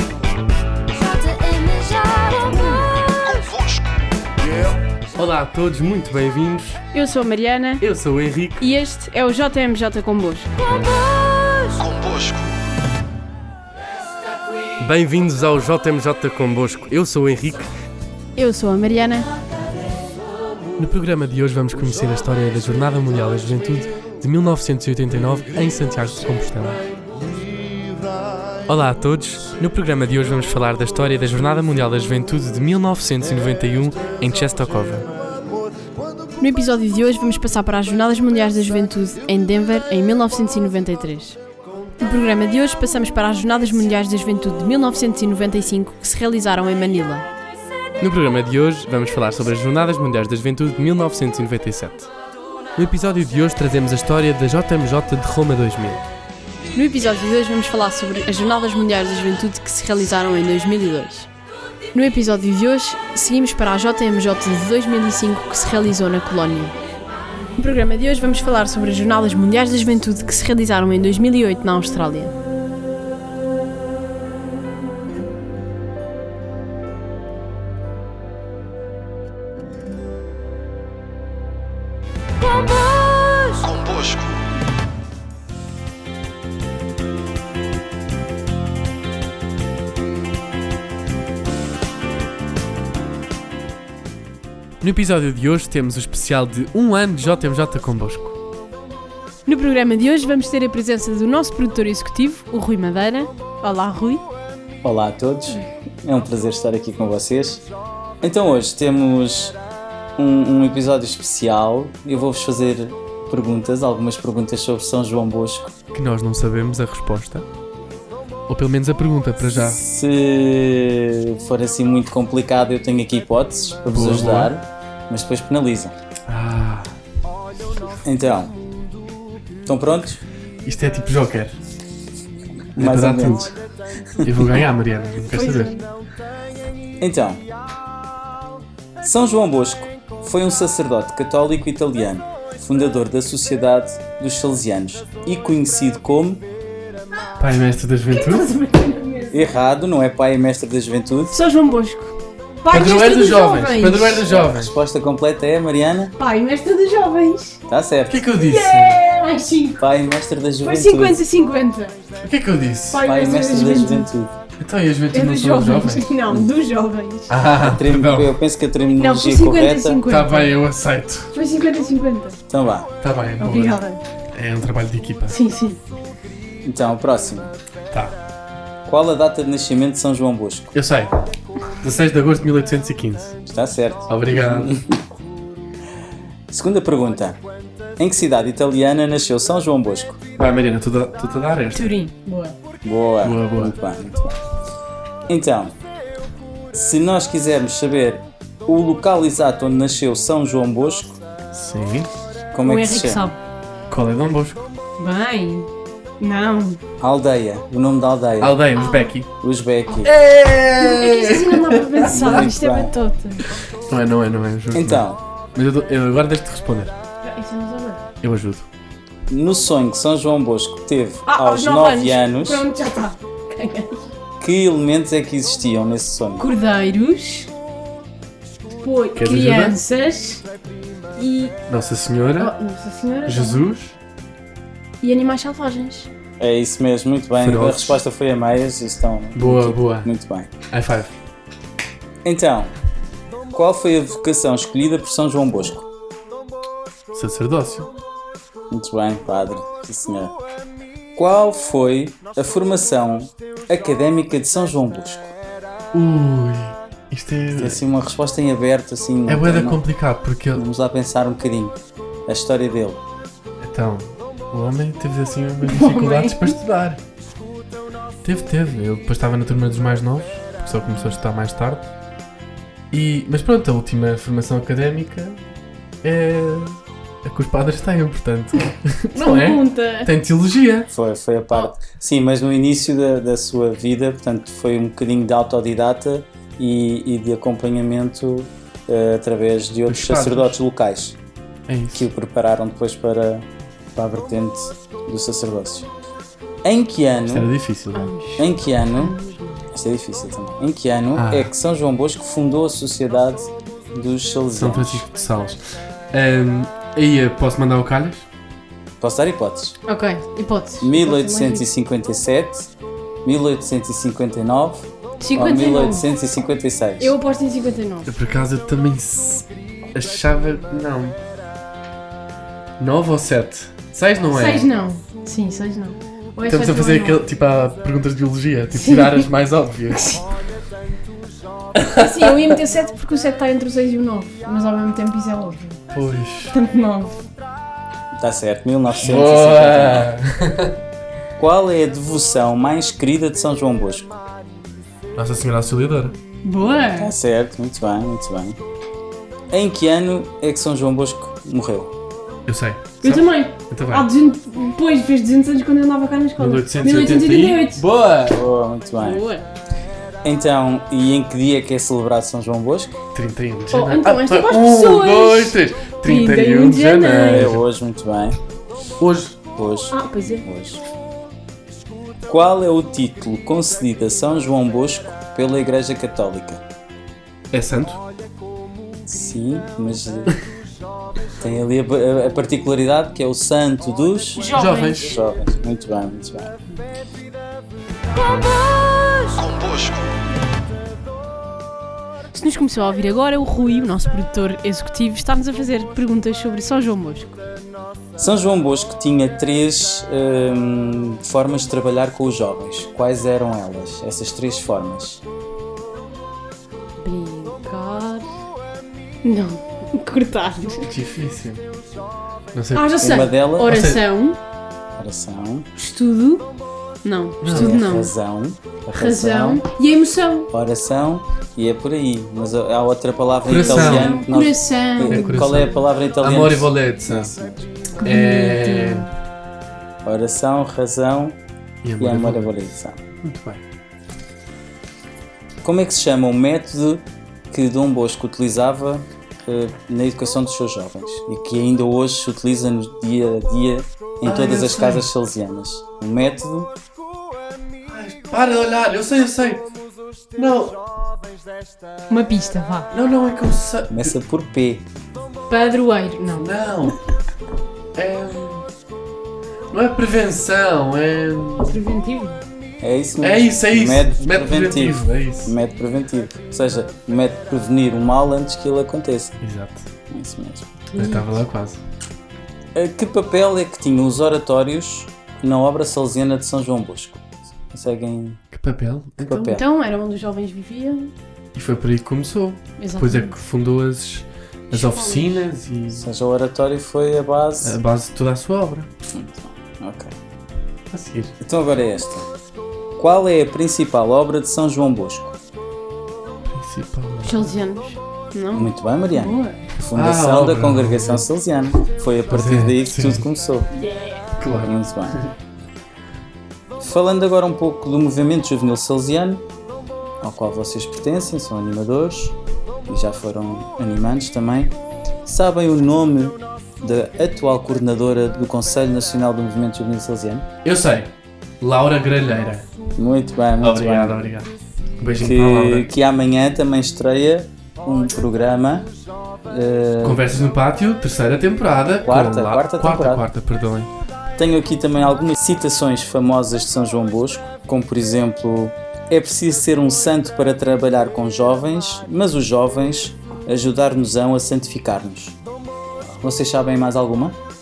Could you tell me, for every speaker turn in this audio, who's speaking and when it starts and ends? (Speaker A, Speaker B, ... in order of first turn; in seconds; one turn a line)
Speaker A: 0.9-2.9
Speaker B: 5.1-6.8
Speaker A: 6.9-7.8
Speaker B: 7.8-8.6
Speaker A: 8.6-10.5
Speaker B: 14.8-17.7
Speaker A: 18.3-19.3
Speaker B: 20.8-26.8
Speaker B: 28.7-35.0
Speaker A: 36.4-41.4
Speaker A: 42.0-47.3
Speaker B: 48.0-52.1
Speaker B: 52.8-56.0
Speaker A: 56.7-61.3
Speaker A: 61.9-66.7
Speaker A: 67.5-72.3
Speaker B: 94.8-98.3
Speaker A: 99.5-104.2
Speaker C: 104.8-107.6
Speaker C: 108.2-109.6
Speaker C: 110.2-115.7
Speaker B: 115.9-117.5
Speaker B: 118.5-119.8
Speaker C: 119.5-125.9
Speaker B: 123.9-124.5
Speaker B: 126.3-126.9
Speaker C: 128.0-128.5
Speaker C: 129.7-130.2
Speaker B: 130.6-131.6
Speaker C: 132.7-133.5
Speaker B: 132.8-133.6
Speaker C: 134.2-134.6
Speaker B: 134.2-135.7
Speaker A: 135.3-135.9
Speaker C: 137.0-137.4
Speaker C: 139.0-146.4
Speaker B: 147.4-148.5
Speaker A: 148.1-149.5
Speaker C: 149.3-151.3
Speaker A: 151.3-154.2
Speaker B: 152.7-154.7
Speaker C: 154.2-156.1
Speaker A: 156.2-157.6
Speaker C: 157.7-158.2
Speaker B: 158.1-159.0
Speaker A: 158.4-159.8
Speaker C: 159.8-161.2
Speaker A: 160.6-161.9
Speaker B: 162.2-163.0
Speaker A: 162.9-164.1
Speaker C: 163.0-164.3
Speaker B: 164.6-166.1
Speaker A: 165.1-167.3
Speaker B: 167.3-168.3
Speaker C: 167.6-170.0
Speaker A: 168.9-170.6
Speaker B: 170.1-171.3
Speaker A: 171.3-172.4
Speaker C: 172.5-172.9
Speaker B: 173.0-175.3
Speaker A: 173.4-174.0
Speaker A: 175.3-175.8
Speaker C: 176.6-177.5
Speaker C: 178.8-180.8
Speaker B: 180.7-181.1
Speaker B: 181.8-183.3
Speaker C: 183.5-185.0
Speaker B: 184.1-184.7
Speaker C: 186.5-187.4
Speaker C: 188.0-190.2
Speaker B: 190.4-191.9
Speaker A: 191.7-192.6
Speaker C: 192.8-194.3
Speaker B: 193.2-193.7
Speaker C: 195.3-195.7
Speaker C: 196.7-201.2
Speaker B: 201.5-202.1
Speaker C: 202.5-203.3
Speaker A: 202.6-203.4
Speaker B: 203.9-204.7
Speaker A: 205.0-205.7
Speaker A: 206.2-206.8
Speaker C: 207.0-208.6
Speaker B: 208.4-209.3
Speaker A: 208.8-209.1
Speaker C: 209.4-210.1
Speaker B: 210.0-212.1
Speaker A: 210.8-213.4
Speaker C: 212.0-212.9
Speaker B: 213.9-216.9
Speaker C: 214.7-215.2
Speaker A: 217.2-218.0
Speaker B: 218.2-218.7
Speaker C: 219.3-222.7
Speaker A: 221.2-224.1
Speaker C: 224.4-226.5
Speaker A: 226.4-227.5
Speaker A: 228.7-230.4
Speaker B: 229.2-229.8
Speaker A: 231.2-231.5
Speaker B: 231.7-232.5
Speaker A: 232.4-233.7
Speaker B: 233.2-233.9
Speaker A: 235.0-236.1
Speaker C: 236.4-240.5
Speaker B: 237.4-238.0
Speaker B: 239.3-240.1
Speaker B: 240.7-241.1
Speaker C: 242.2-242.7
Speaker C: 243.5-245.8
Speaker B: 247.1-247.9
Speaker C: 248.7-250.3
Speaker C: 251.2-255.3
Speaker B: 255.9-257.8
Speaker C: 257.6-259.8
Speaker B: 259.3-260.6
Speaker C: 260.5-261.7
Speaker C: 262.3-263.0
Speaker B: 263.6-267.0
Speaker A: 265.6-266.5
Speaker B: 268.2-271.8
Speaker B: 272.9-275.4
Speaker B: 276.0-280.9
Speaker A: 279.1-280.1
Speaker C: 280.9-291.2
Speaker B: 289.9-290.6
Speaker B: 291.7-292.1
Speaker C: 291.9-295.9
Speaker C: 296.6-297.5
Speaker B: 297.3-298.1
Speaker A: 297.9-299.6
Speaker C: 298.4-299.1
Speaker C: 299.7-305.0
Speaker B: 301.1-301.5
Speaker B: 304.5-308.2
Speaker C: 309.0-309.8
Speaker A: 309.9-311.6
Speaker C: 310.8-312.7
Speaker C: 313.2-317.1
Speaker A: 315.2-316.1
Speaker A: 317.0-318.1
Speaker B: 318.1-321.2
Speaker B: 322.8-324.7
Speaker A: 324.3-327.2
Speaker B: 326.4-330.2
Speaker A: 328.7-329.2
Speaker A: 329.9-330.2
Speaker B: 331.8-332.5
Speaker A: 331.9-335.8
Speaker B: 335.9-336.5
Speaker A: 336.5-337.3
Speaker C: 338.2-340.1
Speaker B: 338.9-340.7
Speaker C: 341.4-344.2
Speaker B: 345.1-346.1
Speaker A: 346.4-347.1
Speaker C: 346.8-348.6
Speaker C: 349.5-351.9
Speaker B: 352.4-354.1
Speaker A: 353.0-357.8
Speaker B: 356.4-358.4
Speaker C: 358.3-359.2
Speaker A: 359.0-359.4
Speaker C: 360.2-362.9
Speaker B: 363.1-367.6
Speaker A: 363.7-367.5
Speaker C: 367.3-368.4
Speaker B: 369.0-369.4
Speaker C: 369.6-370.8
Speaker A: 369.9-370.4
Speaker C: 372.3-376.6
Speaker B: 377.5-378.0
Speaker C: 379.1-380.4
Speaker C: 381.4-386.6
Speaker A: 384.4-385.2
Speaker B: 384.5-385.1
Speaker A: 392.3-397.4
Speaker C: 398.2-405.2
Speaker A: 407.0-408.2
Speaker A: 409.2-410.9
Speaker B: 410.8-411.6
Speaker B: 412.5-413.0
Speaker A: 412.7-414.4
Speaker C: 413.0-413.7
Speaker B: 413.6-414.0
Speaker C: 415.0-415.7
Speaker A: 415.8-416.5
Speaker A: 417.0-418.1
Speaker B: 417.4-417.8
Speaker C: 417.5-419.6
Speaker A: 418.9-420.5
Speaker C: 420.5-427.7
Speaker B: 423.4-424.2
Speaker A: 423.5-425.7
Speaker B: 425.1-427.3
Speaker A: 428.0-429.1
Speaker B: 428.0-429.1
Speaker C: 430.0-431.4
Speaker B: 431.8-432.6
Speaker C: 432.0-433.0
Speaker B: 433.2-433.6
Speaker C: 435.6-446.7
Speaker B: 444.2-445.1
Speaker B: 447.9-449.6
Speaker B: 450.4-450.8
Speaker A: 452.1-452.9
Speaker B: 452.9-454.1
Speaker C: 453.9-454.8
Speaker A: 455.5-456.5
Speaker B: 456.4-457.0
Speaker B: 457.9-458.6
Speaker B: 459.7-461.8
Speaker A: 461.6-462.4
Speaker C: 462.8-469.4
Speaker B: 463.2-465.5
Speaker B: 469.4-469.9
Speaker C: 470.1-470.6
Speaker A: 470.9-471.3
Speaker B: 470.9-471.8
Speaker C: 472.7-478.4
Speaker B: 478.5-479.3
Speaker C: 479.2-479.6
Speaker A: 479.3-481.1
Speaker B: 481.5-486.1
Speaker A: 482.8-483.4
Speaker A: 484.7-485.4
Speaker C: 485.9-487.7
Speaker B: 487.6-488.9
Speaker C: 489.1-490.1
Speaker B: 490.9-491.3
Speaker C: 491.4-492.2
Speaker C: 493.0-495.3
Speaker B: 496.4-497.5
Speaker A: 497.2-499.6
Speaker C: 498.5-503.7
Speaker B: 499.9-501.2
Speaker B: 502.3-503.3
Speaker A: 503.7-504.2
Speaker B: 504.4-505.2
Speaker C: 504.6-505.2
Speaker C: 506.8-509.4
Speaker C: 510.2-512.4
Speaker C: 512.9-520.5
Speaker B: 520.6-522.6
Speaker C: 523.0-524.3
Speaker B: 523.6-524.5
Speaker B: 525.0-525.9
Speaker C: 525.1-528.9
Speaker C: 529.5-530.4
Speaker B: 530.0-533.9
Speaker C: 532.0-533.2
Speaker C: 534.4-545.3
Speaker C: 546.2-547.4